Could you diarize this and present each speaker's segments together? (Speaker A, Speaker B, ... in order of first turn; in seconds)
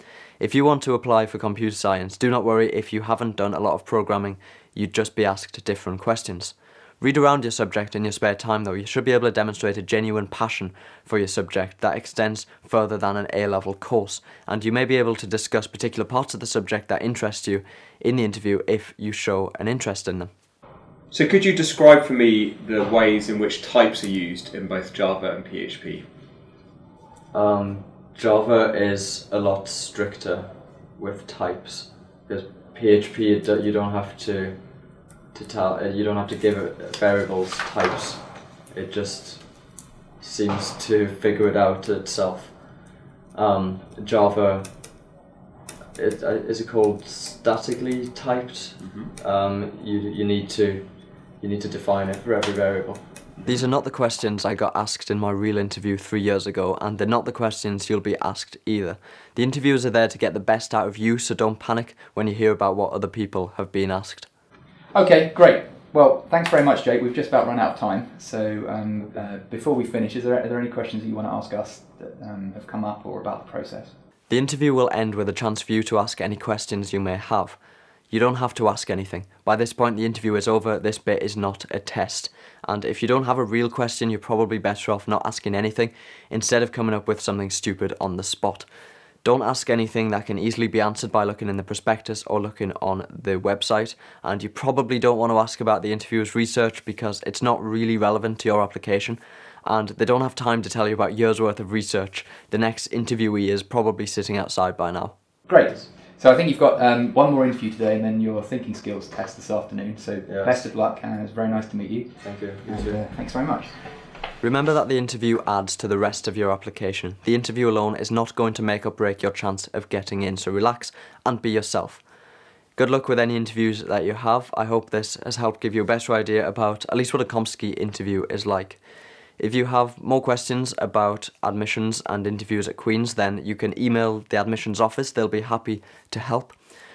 Speaker A: 0.4-20.3, 27.3-34.6, 35.3-38.2, 38.7-39.4, 40.2-42.5, 43.3-44.7, 46.0-50.8, 51.4-64.3, 74.3-77.6, 78.1-88.7, 89.2-105.1, 110.2-110.6, 112.2-113.0, 114.4-122.0, 122.8-128.8, 129.4-136.6
Speaker B: 21.1-26.0, 48.8-49.1
Speaker C: 64.9-73.9, 105.5-113.7